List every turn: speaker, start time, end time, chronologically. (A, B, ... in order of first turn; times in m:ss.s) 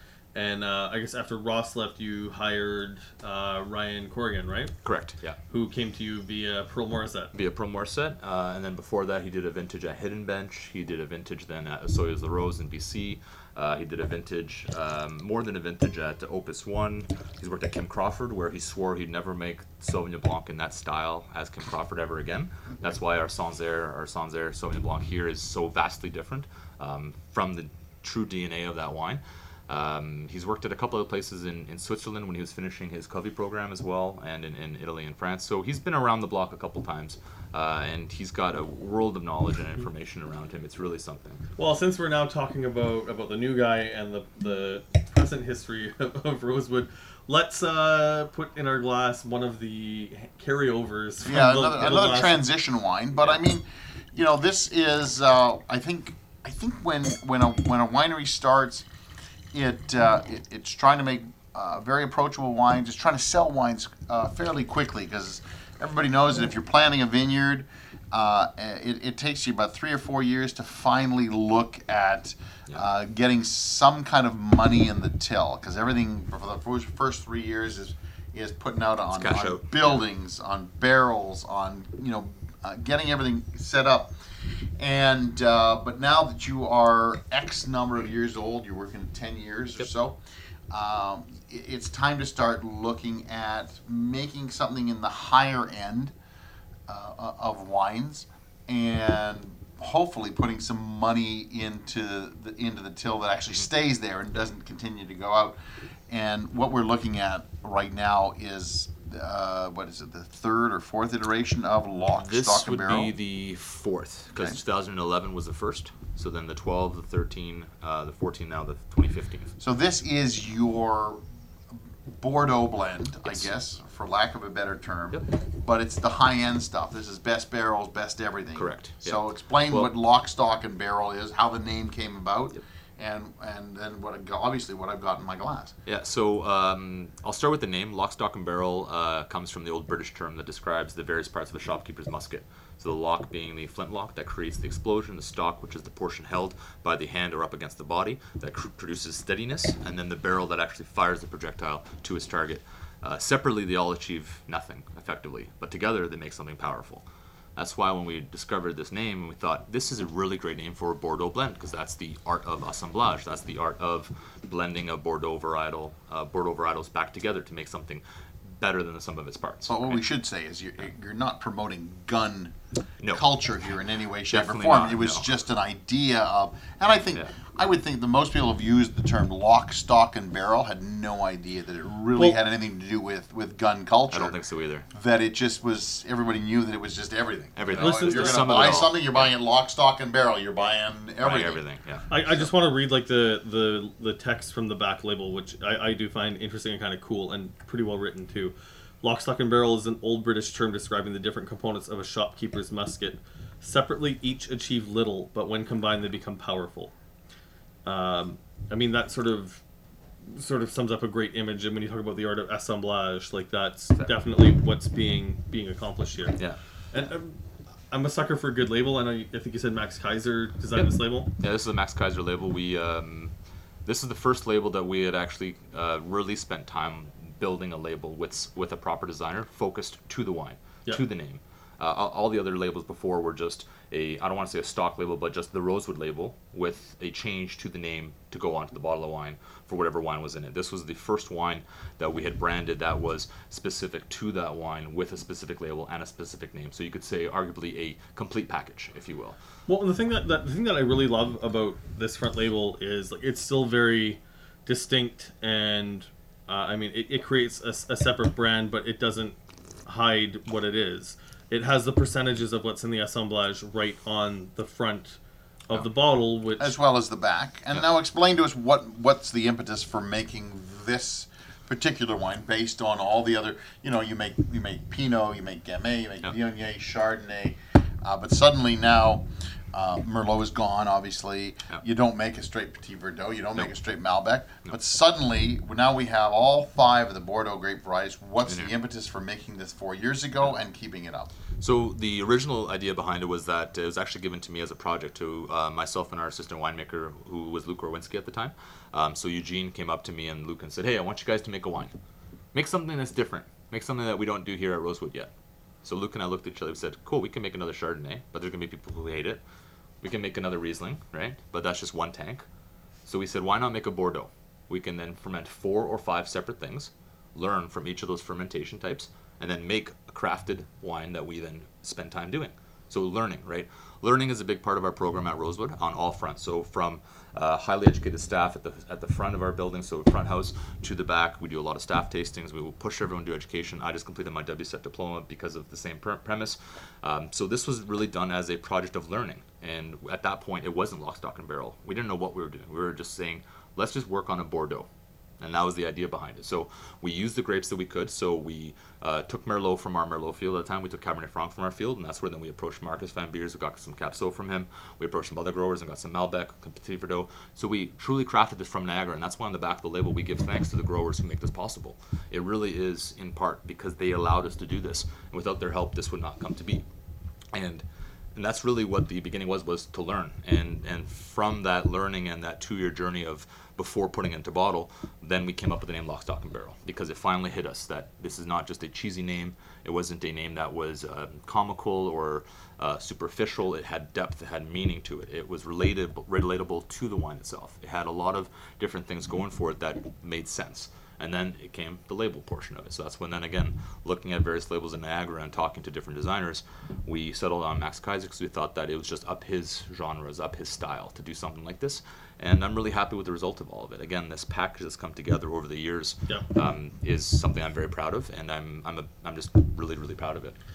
0:00.3-0:07.3 A
0:04.8-0:05.4 B
0:07.3-0:41.4 B
0:41.6-0:52.4 A
0:51.2-0:58.8 C
0:59.5-1:24.1 C
1:19.1-1:20.0 B
1:24.8-1:30.2 C
1:30.7-1:36.1 C
1:36.9-1:45.6 C
1:46.1-1:53.1 C
1:52.1-1:59.5 B
1:59.6-2:15.7 C
2:08.5-2:09.9 B
2:15.8-2:50.0 B
2:49.6-2:52.6 C
2:53.0-2:53.3 B
2:53.1-3:04.4 C
2:54.3-2:55.3 B
3:04.1-3:04.9 B
3:04.9-3:11.6 C
3:07.5-3:09.3 B
3:07.8-3:08.8 A
3:11.2-3:12.1 B
3:12.1-3:26.9 A
3:27.8-3:29.6 A
3:30.2-3:37.4 A
3:37.9-3:41.3 A
3:40.7-3:43.3 B
3:43.8-4:09.4 B
4:09.7-4:26.8 A
4:26.6-4:51.3 C
4:48.4-4:48.7 B
4:51.6-5:01.9 B
5:02.5-5:05.3 B
5:05.8-5:09.4 B
5:10.0-5:12.4 B
5:13.0-5:44.9 B
5:45.4-6:06.8 B
6:07.5-6:07.8 B
6:08.4-6:50.6 B